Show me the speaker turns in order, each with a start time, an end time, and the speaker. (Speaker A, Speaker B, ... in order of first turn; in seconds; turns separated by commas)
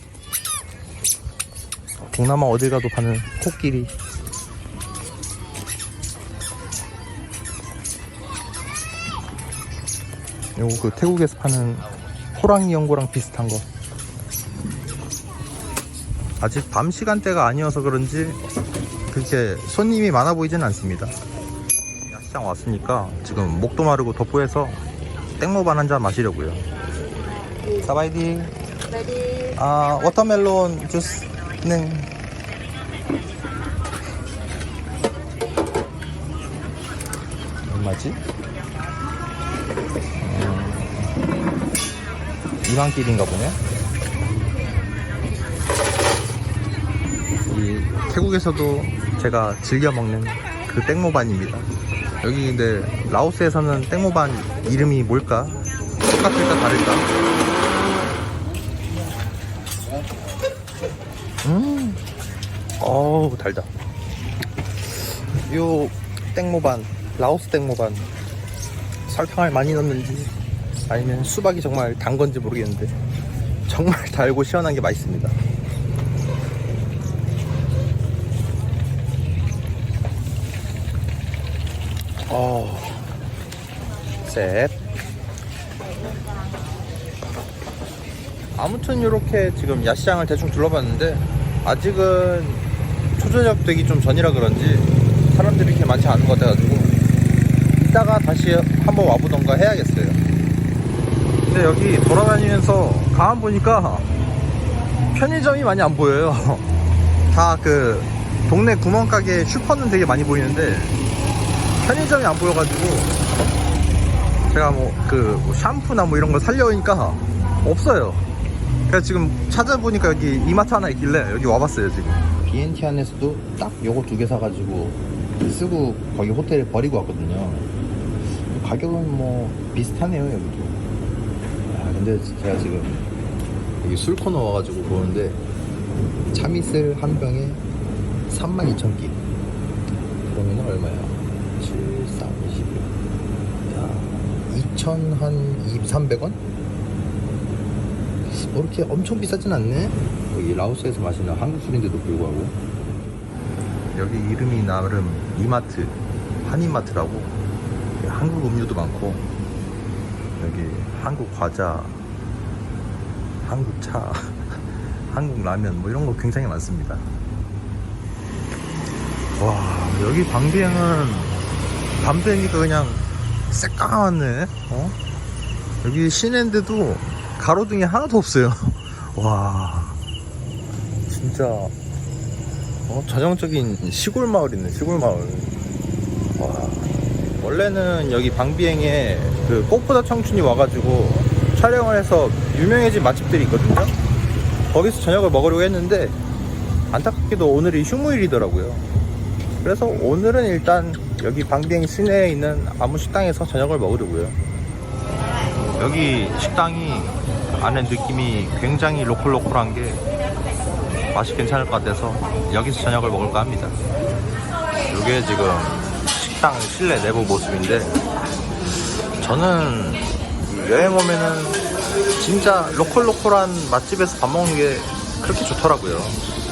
Speaker A: 2.0-3.9, Speaker A: 10.6-13.7, Speaker A: 16.4-18.4, Speaker A: 19.1-21.1, Speaker A: 22.1-24.8, Speaker A: 25.4-26.6, Speaker A: 27.7-28.5, Speaker A: 29.5-32.1, Speaker A: 37.7-38.2, Speaker A: 40.2-41.1, Speaker A: 42.6-43.6, Speaker A: 47.5-51.7, Speaker A: 52.2-57.1, Speaker A: 61.4-62.0, Speaker A: 62.8-63.7, Speaker A: 65.3-68.1, Speaker A: 69.1-70.3, Speaker A: 70.9-72.9, Speaker A: 73.7-75.4, Speaker A: 82.3-83.0, Speaker A: 84.2-84.8, Speaker A: 88.5-92.7, Speaker A: 93.2-96.9, Speaker A: 97.8-100.2, Speaker A: 101.5-104.1, Speaker A: 105.1-106.7, Speaker A: 107.3-111.0, Speaker A: 111.8-113.1, Speaker A: 114.5-118.3, Speaker A: 118.9-127.7, Speaker A: 128.5-130.8, Speaker A: 131.7-133.1, Speaker A: 133.8-135.4, Speaker A: 136.3-137.6, Speaker A: 138.3-139.2, Speaker A: 140.3-142.9, Speaker A: 143.7-146.4, Speaker A: 148.3-152.6, Speaker A: 153.9-157.3, Speaker A: 158.0-159.2, Speaker A: 160.4-162.0, Speaker A: 163.4-167.1, Speaker A: 169.3-171.4, Speaker A: 172.0-174.9, Speaker A: 175.8-180.0, Speaker A: 181.1-181.7, Speaker A: 182.9-185.5, Speaker A: 186.3-194.0, Speaker A: 194.7-196.2, Speaker A: 196.9-198.8, Speaker A: 199.6-204.4, Speaker A: 205.8-210.0, Speaker A: 211.1-213.8, Speaker A: 214.9-218.0, Speaker A: 219.2-221.6, Speaker A: 222.2-226.2